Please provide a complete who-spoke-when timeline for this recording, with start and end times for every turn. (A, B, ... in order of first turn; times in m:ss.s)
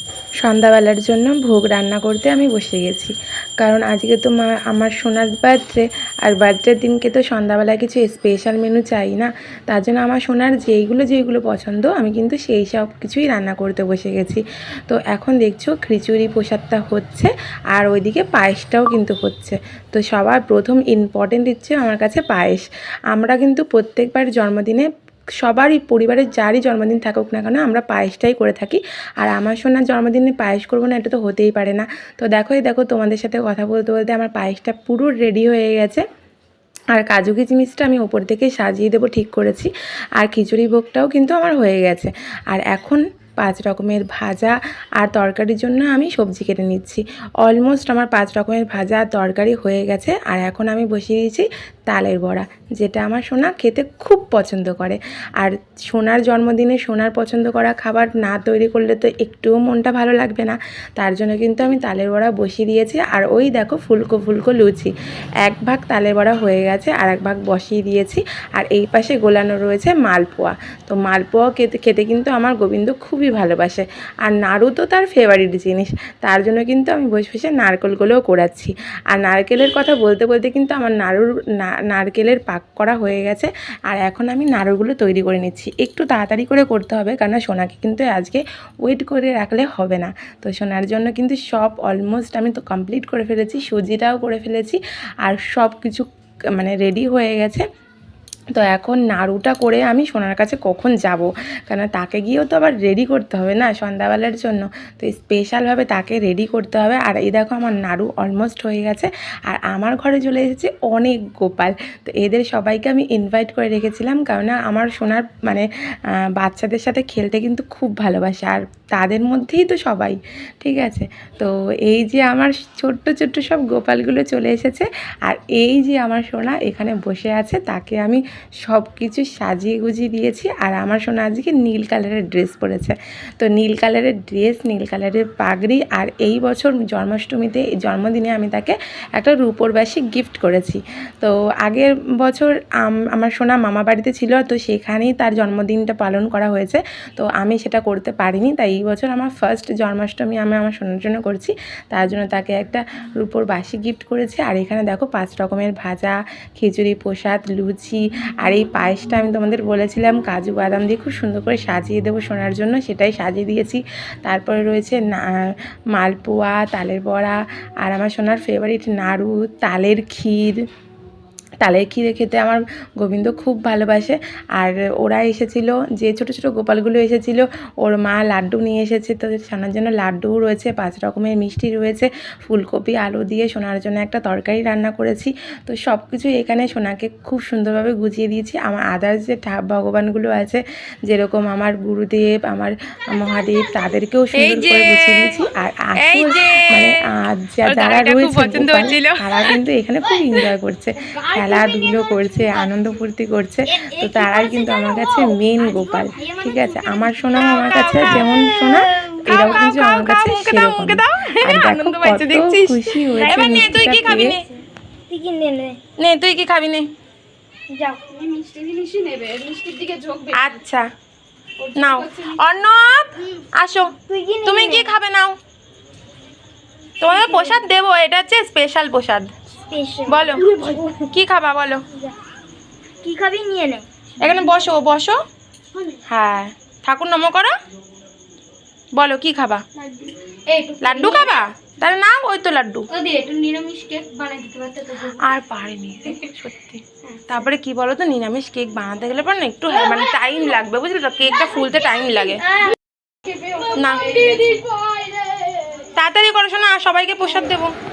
0:00.4-0:24.9 A
0:25.4-0:36.0 A
0:36.9-1:04.9 A
1:05.4-1:37.6 A
1:38.6-1:55.6 A
1:56.4-2:50.6 A
2:51.6-3:34.4 A
3:14.4-3:15.4 B
3:16.0-3:16.8 B
3:17.6-3:19.6 B
3:21.1-3:22.6 C
3:23.7-3:28.4 D
3:27.3-3:34.4 B
3:33.2-3:35.8 D
3:36.0-3:36.9 B
3:37.7-3:38.0 D
3:38.1-3:40.6 C
3:40.3-3:40.7 B
3:41.6-3:42.5 C
3:41.8-3:43.9 B
3:44.0-3:45.0 D
3:44.4-3:45.4 B
3:47.0-3:49.3 B
3:47.1-3:47.4 C
3:49.7-3:51.1 D
3:50.1-3:50.5 B
3:50.3-3:50.9 C
3:51.1-3:51.8 B
3:53.0-3:53.8 D
3:54.2-3:55.2 B
3:54.2-3:54.5 C
3:56.1-3:57.5 B
3:59.0-3:59.6 B
3:59.8-4:01.4 C
4:00.8-4:02.9 B
4:02.9-4:05.2 C
4:05.2-4:09.4 A
4:08.9-4:12.4 B
4:09.8-4:10.4 C
4:11.3-4:15.9 C
4:13.7-4:14.1 B
4:14.2-4:14.6 D
4:16.0-4:17.7 B